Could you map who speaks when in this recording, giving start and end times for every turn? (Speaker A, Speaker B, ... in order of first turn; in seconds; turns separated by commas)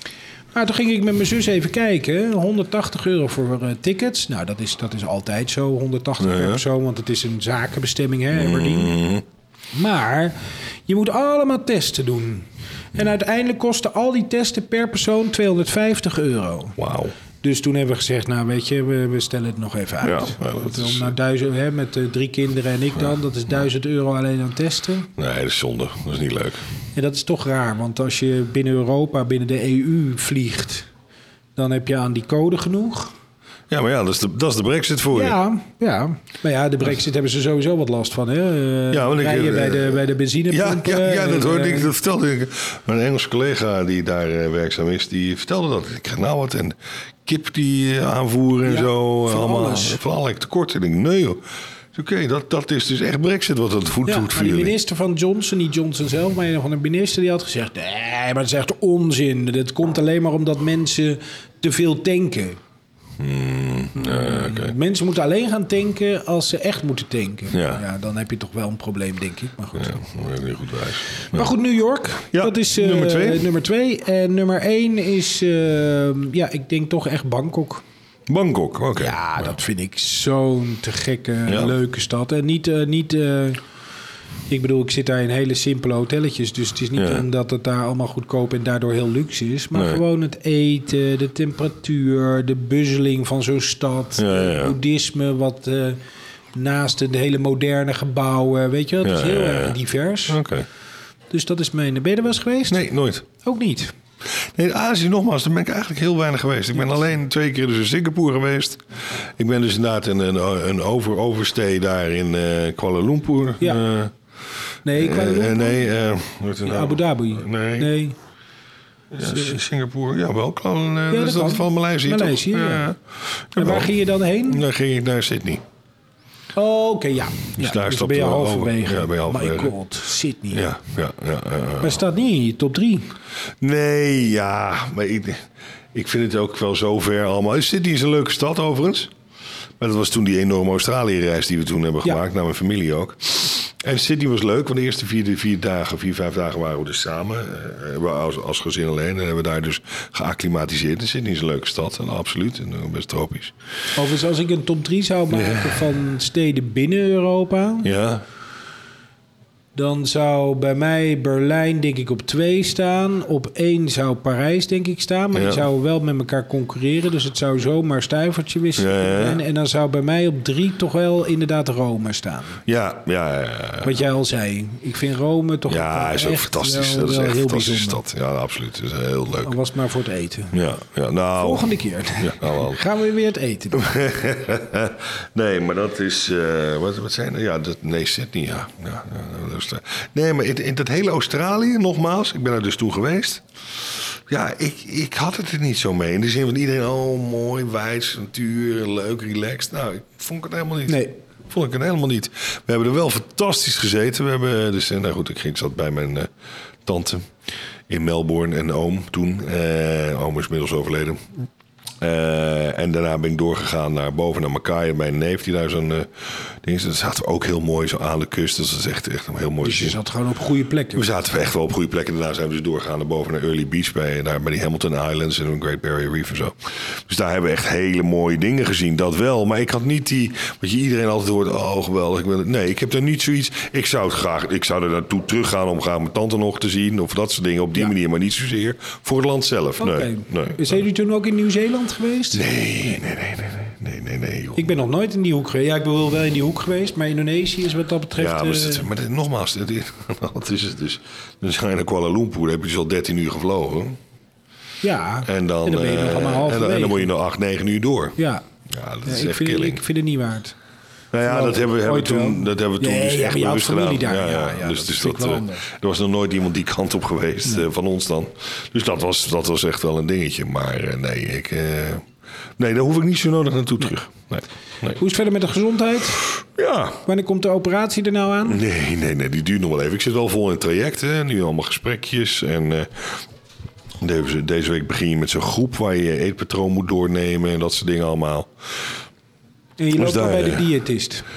Speaker A: 0.5-9.0, Speaker B: 6.2-6.6, Speaker B: 8.3-9.2, Speaker A: 9.7-16.8, Speaker B: 16.8-17.1, Speaker A: 17.4-25.1, Speaker B: 20.0-21.1, Speaker B: 25.2-26.6, Speaker A: 26.9-30.9, Speaker A: 31.6-33.1, Speaker B: 33.7-35.4, Speaker A: 35.1-41.9, Speaker B: 38.9-51.4, Speaker A: 48.6-50.0, Speaker B: 51.9-54.7, Speaker A: 54.0-62.6, Speaker B: 63.2-64.7, Speaker A: 63.9-70.0, Speaker B: 67.5-67.8, Speaker B: 69.8-71.5, Speaker A: 71.2-77.8, Speaker B: 72.3-73.5, Speaker B: 78.3-79.2, Speaker A: 79.0-83.6, Speaker B: 81.5-81.7, Speaker A: 84.5-96.0, Speaker B: 87.0-87.2, Speaker B: 89.7-90.0, Speaker B: 94.2-94.7, Speaker A: 96.5-100.4, Speaker B: 99.0-99.8, Speaker B: 100.3-100.7, Speaker A: 101.3-103.9, Speaker B: 102.7-103.2, Speaker B: 104.3-108.8, Speaker B: 109.4-114.1, Speaker A: 114.8-115.8, Speaker B: 114.9-117.9, Speaker A: 116.6-118.2, Speaker B: 119.1-125.6, Speaker A: 119.3-119.5, Speaker A: 121.1-122.9, Speaker A: 123.5-124.6, Speaker A: 126.5-130.7, Speaker B: 127.6-129.7, Speaker B: 130.5-132.0, Speaker A: 131.8-133.1, Speaker B: 133.6-139.1, Speaker B: 139.8-153.5, Speaker A: 153.9-157.9, Speaker B: 155.3-155.8, Speaker B: 157.8-158.2, Speaker A: 159.7-172.6, Speaker B: 165.3-165.6, Speaker B: 168.8-169.4, Speaker B: 172.7-173.9, Speaker A: 173.8-178.0, Speaker B: 175.7-179.5, Speaker A: 179.4-180.6, Speaker B: 180.5-182.8, Speaker A: 181.4-183.9, Speaker B: 183.7-206.3, Speaker A: 200.9-201.2, Speaker B: 206.8-207.3, Speaker B: 207.9-211.4, Speaker B: 212.0-220.0, Speaker A: 219.6-221.0, Speaker B: 220.9-240.8, Speaker A: 239.8-242.9, Speaker B: 242.3-244.7, Speaker A: 244.6-248.9, Speaker B: 248.2-254.0, Speaker A: 254.8-257.1, Speaker B: 255.2-259.8, Speaker A: 258.2-258.4, Speaker A: 259.0-260.6, Speaker B: 261.1-272.1, Speaker A: 261.2-265.7, Speaker B: 272.6-275.0, Speaker A: 274.9-276.2, Speaker B: 276.3-277.0, Speaker A: 277.0-278.6, Speaker B: 278.4-283.2, Speaker B: 284.0-288.5, Speaker A: 289.8-291.2, Speaker B: 289.9-290.7